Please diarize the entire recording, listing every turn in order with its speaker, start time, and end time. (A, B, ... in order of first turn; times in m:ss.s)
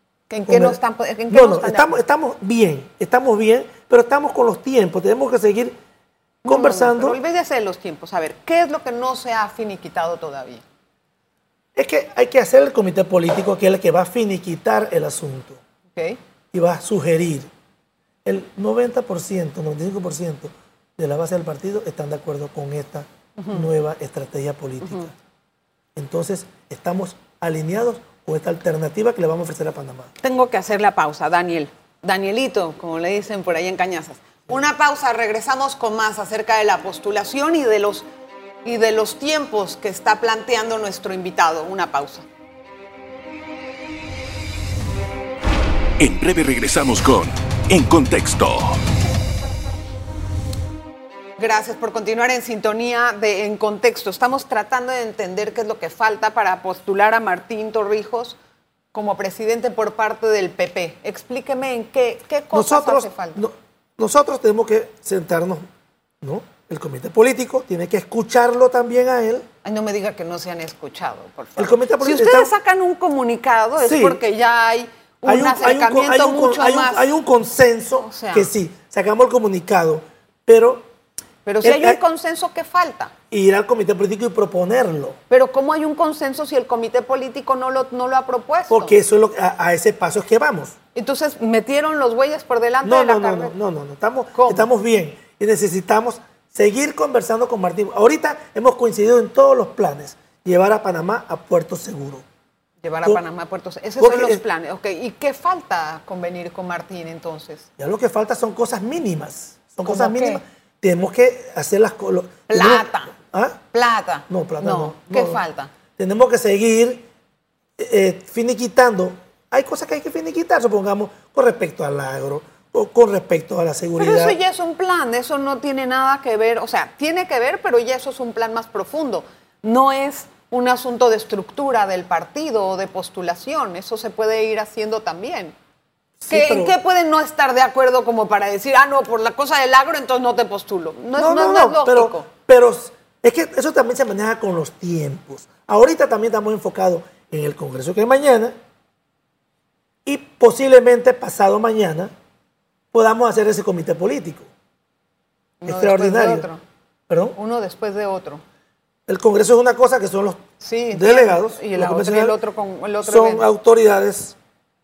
0:00.3-0:02.0 A
0:00.5-0:00.8 B
0:01.3-0:05.8 B
0:06.4-0:07.2 B
0:06.5-0:10.6 A
0:11.8-0:15.6 B
0:15.9-0:16.2 A
0:16.5-0:17.5 B
0:18.2-0:25.1 B
0:23.4-0:23.6 A
0:24.8-0:25.1 A
0:26.0-0:30.1 B
0:30.2-0:38.0 A
0:38.6-0:42.2 A
0:46.0-0:48.8 C
0:51.4-0:58.4 A
0:58.9-1:03.4 A
1:02.5-1:05.6 B
1:06.2-1:09.4 B
1:09.6-1:17.1 A
1:11.6-1:12.5 B
1:13.8-1:14.2 B
1:15.2-1:20.9 B
1:18.0-1:18.5 A
1:21.4-1:23.1 A
1:21.6-1:22.0 B
1:23.3-1:25.2 B
1:25.3-1:28.9 A
1:28.7-1:30.8 B
1:30.9-1:33.5 A
1:32.8-1:42.2 B
1:34.3-1:34.7 A
1:42.8-1:47.7 A
1:44.0-1:44.4 B
1:47.8-1:53.6 B
1:49.8-1:50.4 A
1:52.5-1:53.1 A
1:53.7-1:55.7 A
1:54.3-1:55.4 B
1:56.0-1:57.0 B
1:57.8-2:04.4 B
2:04.0-2:15.5 A
2:16.2-2:16.7 B
2:16.3-2:22.3 A
2:21.2-2:28.5 B
2:30.0-2:32.1 B
2:32.9-2:34.5 B
2:35.6-2:36.6 A
2:35.6-2:36.5 B
2:37.1-2:37.4 B
2:37.3-2:38.4 A
2:39.1-2:42.4 B
2:40.6-2:43.5 A
2:43.0-2:44.4 B